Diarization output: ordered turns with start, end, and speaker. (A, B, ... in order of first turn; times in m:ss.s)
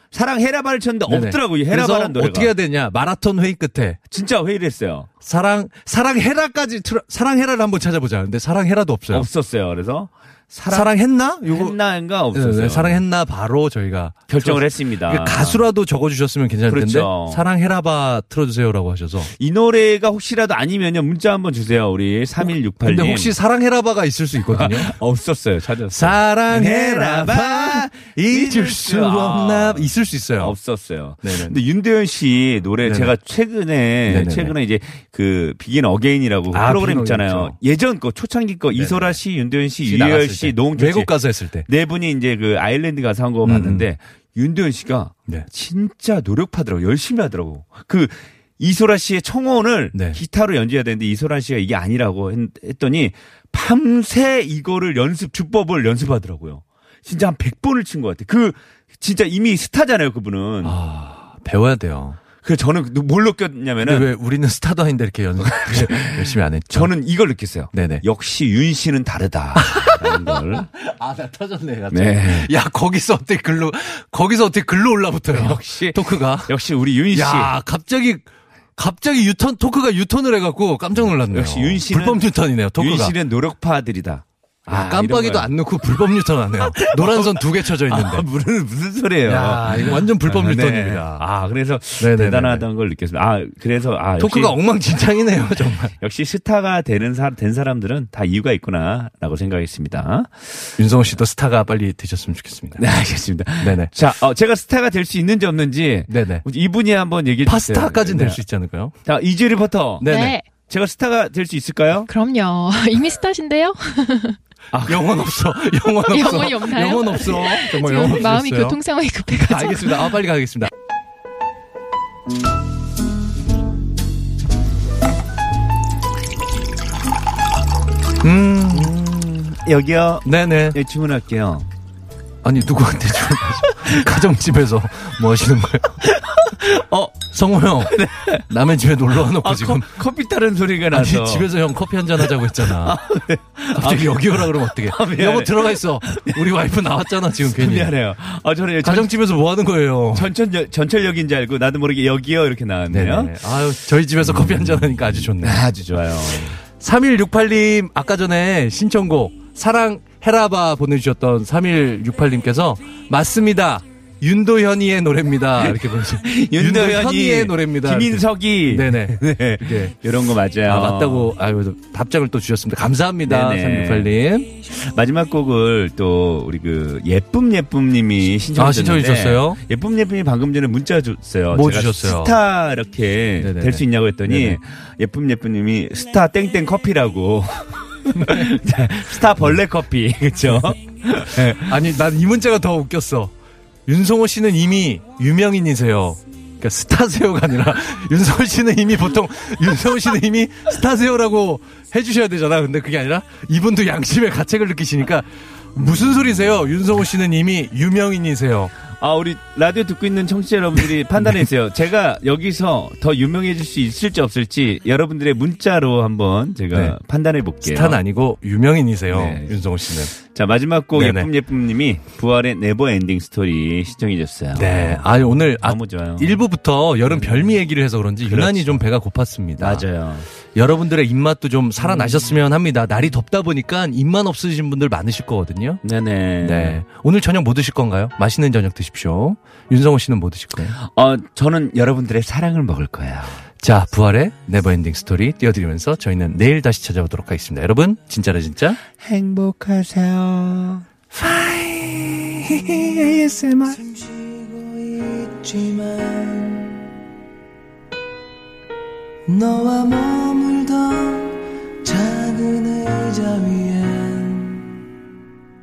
0:00.1-0:02.5 A
0:01.1-0:04.0 B
0:04.1-0:05.1 A
0:05.2-0:09.3 B
0:09.1-0:13.0 A
0:10.7-0:11.8 B
0:12.3-0:19.3 B
0:14.3-0:15.6 A
0:16.7-0:17.4 A
0:19.3-0:23.4 A
0:22.4-0:24.9 B
0:24.5-1:00.8 A
0:25.9-0:30.5 B
0:31.2-0:31.6 B
0:32.8-0:33.1 B
0:34.1-0:34.5 B
0:36.5-0:37.6 B
0:38.7-0:39.2 B
0:39.8-0:41.6 B
0:43.4-0:43.9 B
0:49.9-0:50.2 B
1:00.6-1:02.2 B
1:02.4-1:04.1 A
1:03.8-1:06.9 B
1:05.4-1:10.7 A
1:07.7-1:08.0 B
1:09.6-1:16.5 B
1:11.9-1:12.5 A
1:15.3-1:17.5 A
1:17.1-1:23.1 B
1:21.0-1:25.5 A
1:24.7-1:28.2 B
1:26.6-1:34.6 A
1:29.2-1:31.2 B
1:32.0-1:32.6 B
1:34.2-1:35.9 B
1:35.9-1:40.7 A
1:40.8-1:42.8 B
1:42.8-1:48.4 A
1:43.6-1:43.9 B
1:46.1-1:46.4 B
1:47.4-1:48.9 B
1:49.0-1:50.1 A
1:50.0-1:50.4 B
1:50.0-1:50.5 C
1:50.6-1:52.1 A
1:52.1-1:54.4 C
1:54.7-1:55.2 A
1:54.8-2:00.7 B
1:56.1-2:00.2 C
2:08.2-2:08.9 B
2:08.7-2:11.7 A
2:10.2-2:10.8 B
2:12.4-2:16.0 B
2:16.3-2:17.1 A
2:17.1-2:20.0 B
2:17.8-2:18.4 A
2:19.1-2:21.5 A
2:20.9-2:23.0 B
2:22.2-2:26.5 A
2:23.7-2:27.9 B
2:27.4-2:29.1 A
2:28.8-2:30.3 B
2:30.1-2:33.3 A
2:32.9-2:35.6 B
2:34.2-2:36.6 A
2:36.8-2:49.9 B
2:45.6-2:51.3 A
2:50.6-2:54.5 B
2:53.2-2:54.1 A
2:54.7-3:11.8 A
2:58.6-2:59.6 B
3:01.5-3:02.4 B
3:03.4-3:04.6 B
3:08.2-3:08.5 B
3:11.6-3:13.3 B
3:13.9-3:28.7 B
3:29.0-3:38.0 A
3:37.6-3:40.1 B
3:39.1-3:39.6 A
3:40.1-3:46.4 A
3:41.0-3:41.3 B
3:44.5-3:49.8 B
3:47.1-3:47.6 A
3:48.2-3:48.8 A
3:49.6-3:50.3 A
3:50.5-3:55.8 B
3:51.8-3:52.3 A
3:55.8-3:56.8 A
3:56.4-4:00.8 B
4:00.8-4:03.4 A
4:03.6-4:08.8 B
4:09.0-4:10.8 A
4:11.1-4:13.1 B
4:12.5-4:13.8 A
4:13.7-4:16.9 D
4:19.2-4:24.8 D